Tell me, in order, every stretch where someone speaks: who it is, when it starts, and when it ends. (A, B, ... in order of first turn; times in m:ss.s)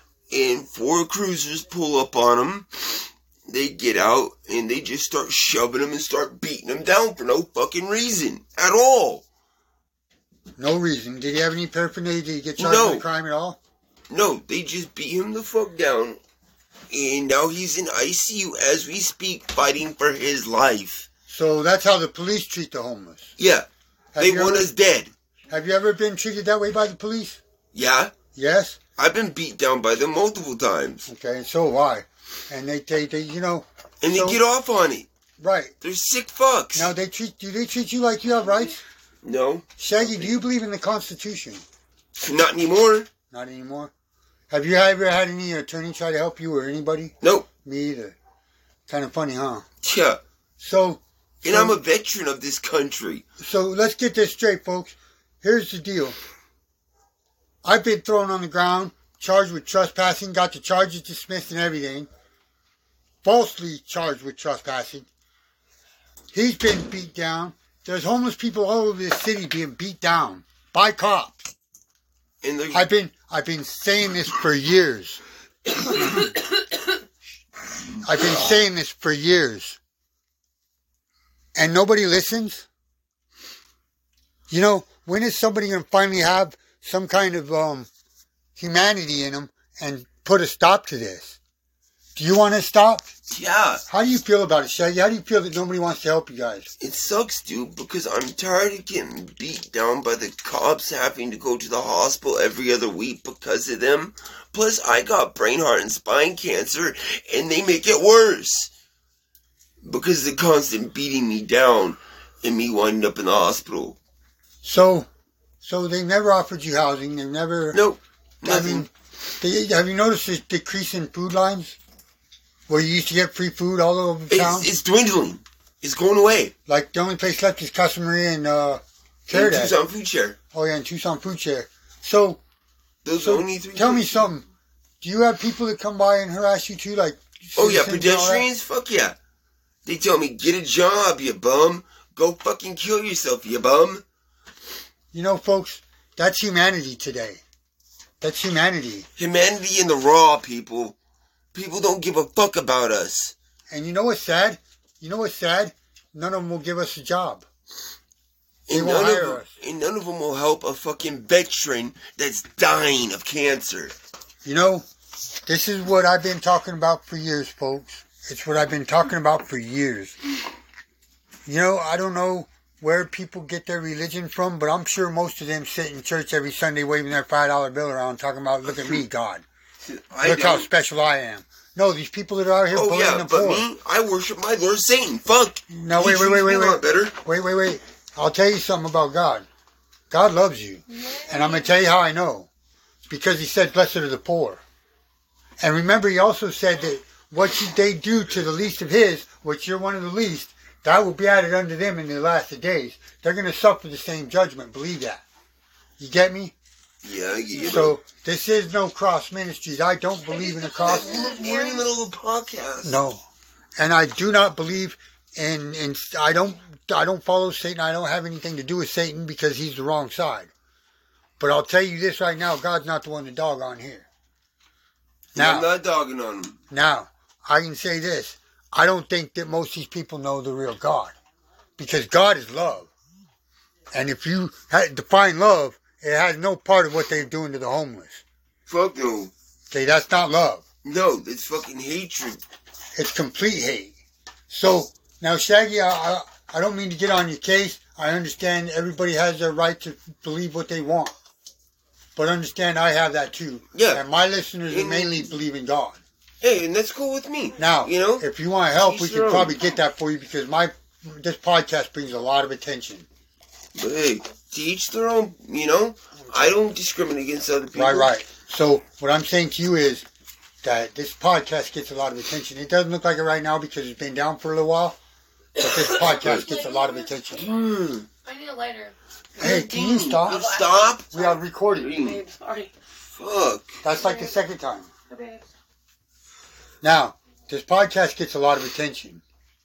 0:00.3-0:09.2 A
0:10.6-0:13.6 B
0:12.6-0:13.0 A
0:14.1-0:16.2 A
0:16.9-0:21.1 A
0:21.3-0:23.3 B
0:23.4-0:23.7 A
0:24.1-0:24.7 B
0:24.2-0:25.1 A
0:25.5-0:27.4 B
0:27.7-0:28.1 A
0:28.3-0:28.8 B
0:29.0-0:31.1 A
0:31.1-0:34.4 B
0:34.0-0:35.1 A
0:35.4-0:35.7 B
0:35.8-0:36.9 A
0:36.7-0:38.8 B
0:39.2-0:40.3 A
0:39.8-0:41.6 B
0:42.2-0:43.1 A
0:43.3-0:43.9 B
0:44.5-0:48.2 B
0:47.2-0:47.5 A
0:48.9-0:49.6 B
0:49.8-0:50.2 A
0:50.6-0:51.8 B
0:51.4-0:53.2 A
0:53.4-0:56.2 B
0:57.6-1:02.1 B
1:03.2-1:05.1 B
1:06.3-1:11.4 B
1:12.4-1:12.8 A
1:12.7-1:15.2 B
1:18.0-1:19.8 B
1:21.6-1:22.7 B
1:24.5-1:27.9 B
1:28.6-1:31.4 B
1:32.2-1:33.1 B
1:33.3-1:33.8 A
1:33.9-1:36.7 B
1:36.8-1:48.7 A
1:49.8-1:54.0 A
1:54.6-1:55.1 B
1:55.6-1:57.8 B
1:57.7-1:58.9 A
1:58.4-2:01.8 B
2:02.7-2:04.7 B
2:04.3-2:06.5 A
2:06.7-2:09.7 B
2:09.3-2:10.4 A
2:10.5-2:12.4 B
2:13.0-2:14.3 A
2:13.2-2:14.5 B
2:15.0-2:18.4 B
2:17.6-2:19.2 A
2:19.8-2:24.0 A
2:25.1-2:27.4 B
2:28.2-2:29.1 B
2:29.2-2:31.0 A
2:31.5-2:33.3 A
2:33.7-2:37.4 B
2:38.7-2:43.9 A
2:38.7-2:39.5 B
2:44.4-2:44.8 B
2:45.5-2:50.1 B
2:51.4-2:59.4 B
2:58.7-2:59.0 A
2:59.8-3:00.7 A
3:00.2-3:03.7 B
3:02.7-3:07.1 A
3:05.7-3:09.5 B
3:10.1-3:12.5 B
3:11.0-3:11.7 C
3:13.1-3:14.6 B
3:15.6-3:25.2 B
3:26.0-3:26.5 B
3:27.0-3:28.0 A
3:27.6-3:31.4 B
3:30.4-3:31.8 C
3:30.6-3:33.0 A
3:32.8-3:33.2 B
3:33.8-3:40.5 B
3:41.4-3:44.1 B
3:45.3-3:45.7 B
3:45.4-3:46.6 A
3:46.7-3:51.1 B
3:51.8-3:52.9 B
3:53.9-3:58.2 B
3:58.7-3:59.3 A
3:59.7-4:00.6 B
4:00.8-4:02.4 A
4:03.0-4:03.9 B
4:04.5-4:11.1 B
4:12.2-4:16.0 B
4:13.7-4:14.0 A
4:14.7-4:15.4 A
4:16.4-4:19.6 A
4:17.6-4:23.1 B
4:23.7-4:28.1 A
4:26.2-4:26.6 B
4:27.7-4:30.0 B
4:30.6-4:35.0 B
4:35.6-4:36.4 A
4:35.6-4:37.5 B
4:36.3-4:37.0 C
4:37.4-4:38.1 A
4:38.2-4:38.9 C
4:39.4-4:40.5 B
4:39.4-4:41.1 A
4:40.2-4:41.4 C
4:41.1-4:42.0 B
4:41.7-4:42.2 A
4:41.9-4:42.7 C
4:43.1-4:43.8 A
4:43.8-4:44.9 B
4:44.0-4:44.4 C
4:45.1-4:45.4 C
4:46.8-4:49.2 B